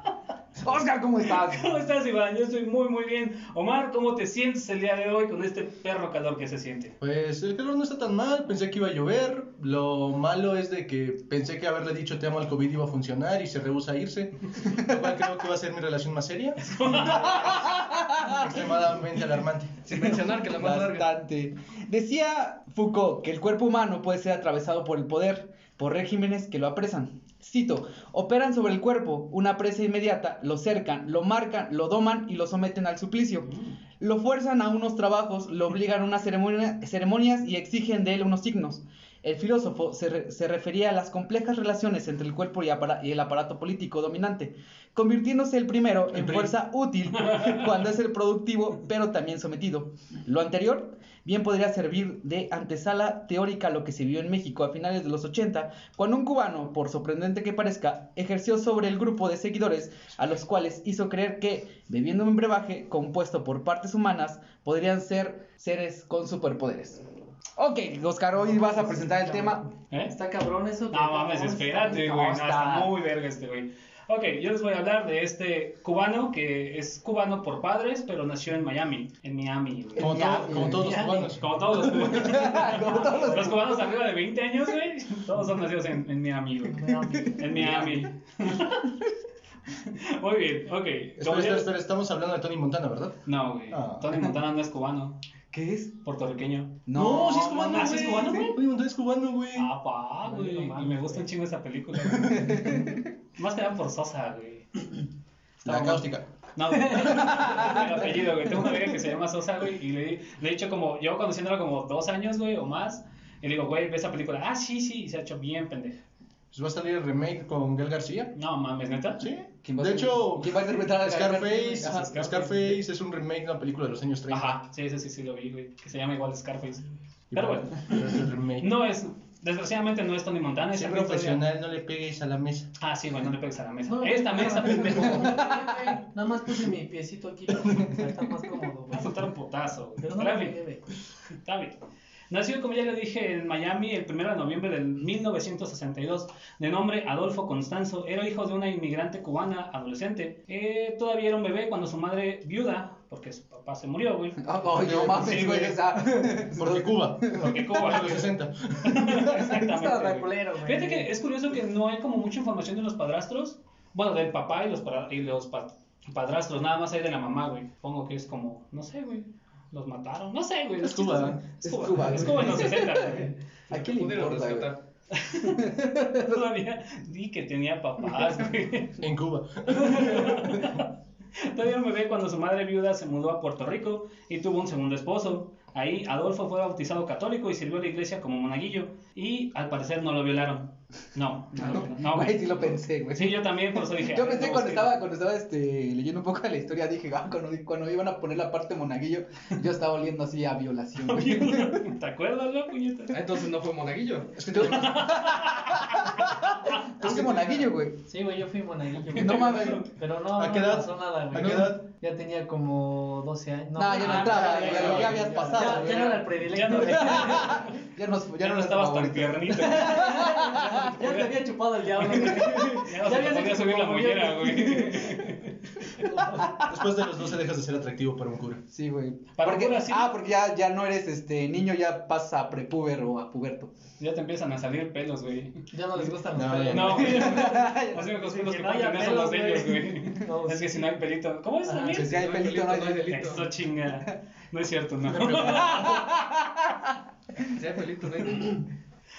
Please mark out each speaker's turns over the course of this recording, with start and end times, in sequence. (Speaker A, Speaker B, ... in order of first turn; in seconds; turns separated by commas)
Speaker A: 0.6-1.7, Speaker B: 1.3-7.0, Speaker C: 7.0-17.7, Speaker B: 16.6-17.8, Speaker A: 17.4-18.5, Speaker C: 18.2-19.9, Speaker D: 19.9-21.1, Speaker A: 20.0-67.0, Speaker B: 33.4-33.8, Speaker B: 47.2-47.6, Speaker A: 67.6-69.7, Speaker E: 68.4-72.9, Speaker B: 70.9-88.9, Speaker A: 79.9-81.1, Speaker C: 80.0-82.3, Speaker E: 80.7-81.3, Speaker A: 81.9-83.9, Speaker E: 86.7-87.8, Speaker A: 86.8-88.1, Speaker B: 89.7-91.7, Speaker C: 91.2-93.2, Speaker B: 93.2-95.2, Speaker C: 93.7-94.1, Speaker A: 95.5-96.0, Speaker B: 96.0-96.8, Speaker A: 96.8-98.5, Speaker C: 96.9-99.7, Speaker B: 97.7-98.6, Speaker B: 99.5-104.9, Speaker E: 100.2-101.2, Speaker C: 102.0-102.7, Speaker A: 102.3-103.1, Speaker C: 105.6-106.2, Speaker A: 105.6-106.0, Speaker B: 106.5-116.0, Speaker A: 106.9-108.9, Speaker C: 116.5-118.3, Speaker B: 118.3-119.3, Speaker C: 119.2-124.6, Speaker A: 119.6-122.4, Speaker B: 122.1-122.8, Speaker B: 124.3-131.4, Speaker C: 127.3-128.7, Speaker C: 130.7-132.7, Speaker B: 132.8-135.5, Speaker E: 133.9-139.2, Speaker A: 135.1-135.9, Speaker C: 137.5-138.0, Speaker B: 138.9-140.6, Speaker E: 140.0-140.9, Speaker B: 141.4-141.8, Speaker B: 142.3-155.7, Speaker A: 154.4-157.7, Speaker C: 154.7-159.2, Speaker B: 157.3-173.3, Speaker E: 159.5-161.1, Speaker C: 170.8-171.4, Speaker A: 171.6-174.7, Speaker D: 173.7-174.8, Speaker B: 175.1-179.0, Speaker A: 175.5-176.4, Speaker C: 179.0-180.8, Speaker B: 179.7-180.9, Speaker B: 181.4-195.0, Speaker A: 191.5-201.8, Speaker B: 201.0-203.3, Speaker D: 203.1-204.3, Speaker C: 204.3-205.0, Speaker A: 204.5-208.0, Speaker B: 204.5-206.8, Speaker C: 207.0-207.7, Speaker E: 208.1-217.6, Speaker B: 209.1-209.9, Speaker A: 209.1-209.9, Speaker C: 210.3-211.8, Speaker A: 213.8-220.8, Speaker B: 214.0-217.8, Speaker B: 218.4-221.3, Speaker E: 219.5-225.3, Speaker B: 222.0-226.2, Speaker E: 225.8-226.6, Speaker C: 226.5-228.6, Speaker A: 228.7-233.7, Speaker B: 229.3-230.1, Speaker B: 234.0-235.6, Speaker E: 235.7-241.0, Speaker C: 236.3-237.2, Speaker B: 236.7-242.1, Speaker A: 237.0-238.1, Speaker E: 241.7-242.0, Speaker D: 241.9-243.5, Speaker A: 241.9-243.4, Speaker B: 243.1-246.0, Speaker C: 245.1-246.1, Speaker A: 245.1-247.5, Speaker D: 247.5-248.6